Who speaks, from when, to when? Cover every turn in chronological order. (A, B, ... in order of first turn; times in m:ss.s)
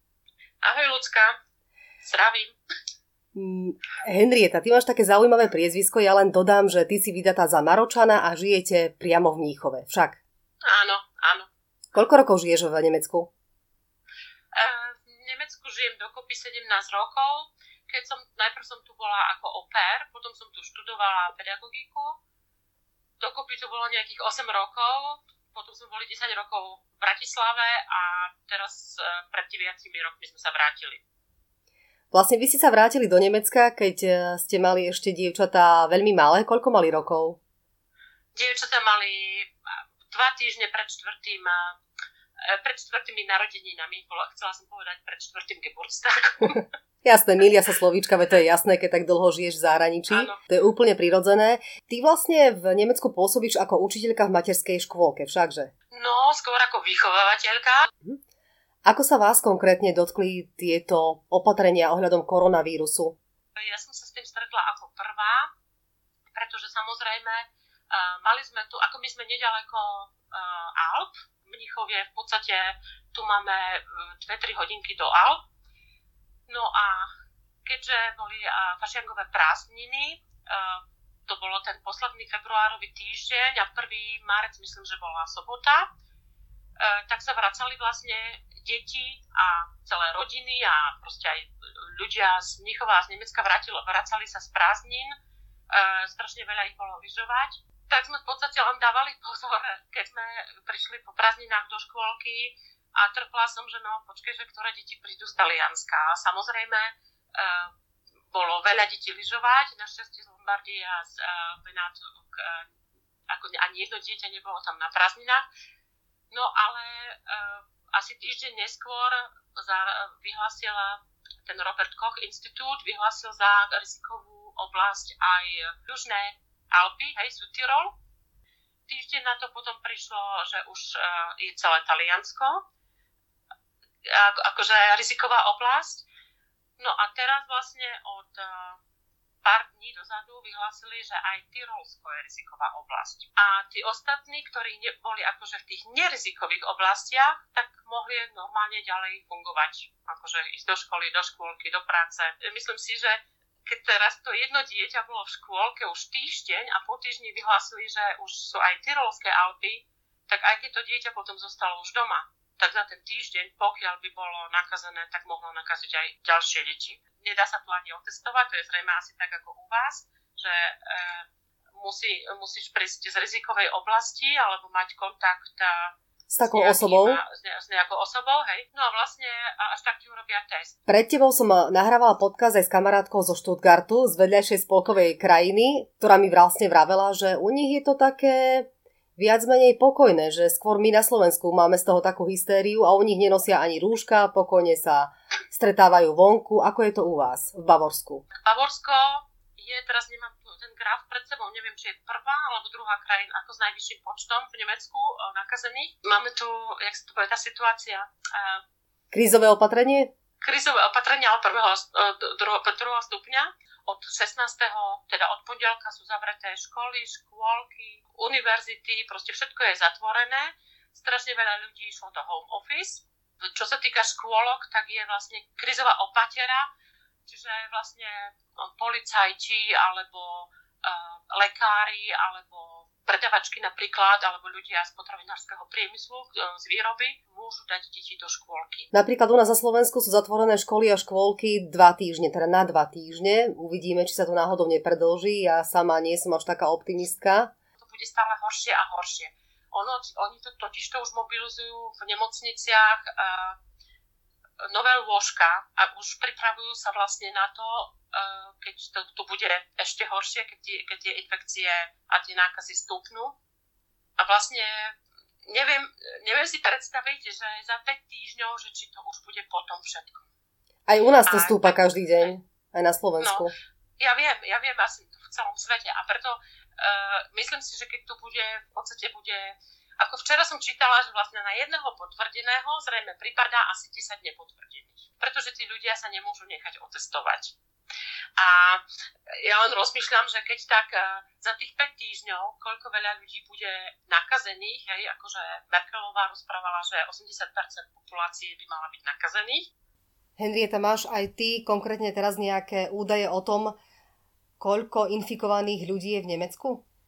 0:00.6-0:01.3 A
0:02.0-0:02.5 A
0:03.3-0:10.2 B
0:10.6-0:11.5 A
0:11.9-0:13.3 B
0:14.5-0:22.2 A
0:23.2-0:31.0 A
0:32.1-0:37.4 B
0:38.3-0:39.5 A
0:40.1-0:41.8 A
0:42.4-0:46.6 A
0:47.0-0:55.7 B
0:50.1-0:50.4 A
0:55.9-0:57.9 A
0:58.8-1:03.2 B
1:03.5-1:05.5 A
1:06.3-1:15.4 A
1:16.5-1:17.1 A
1:17.6-1:25.8 A
1:26.8-1:35.1 A
1:35.7-1:47.7 A
1:48.3-1:52.7 A
1:53.3-1:55.4 A
1:56.3-2:07.9 A
2:08.9-2:12.6 A
2:14.0-2:16.1 A
2:16.8-2:18.8 A
2:19.4-2:51.2 A
2:51.8-3:00.7 A
2:56.3-2:57.2 B
3:00.9-3:18.2 B
3:18.3-3:28.6 A
3:29.1-3:30.1 B
3:30.4-3:46.7 A
3:47.2-3:58.9 A
3:58.9-4:07.5 B
4:07.8-4:13.6 A
4:14.6-4:23.4 A
4:24.2-4:30.2 A
4:30.9-4:33.5 B
4:31.2-4:32.0 A
4:33.2-4:33.4 A
4:34.0-4:47.5 A
4:48.4-4:59.7 A
5:00.4-5:03.8 B
5:04.6-5:06.8 B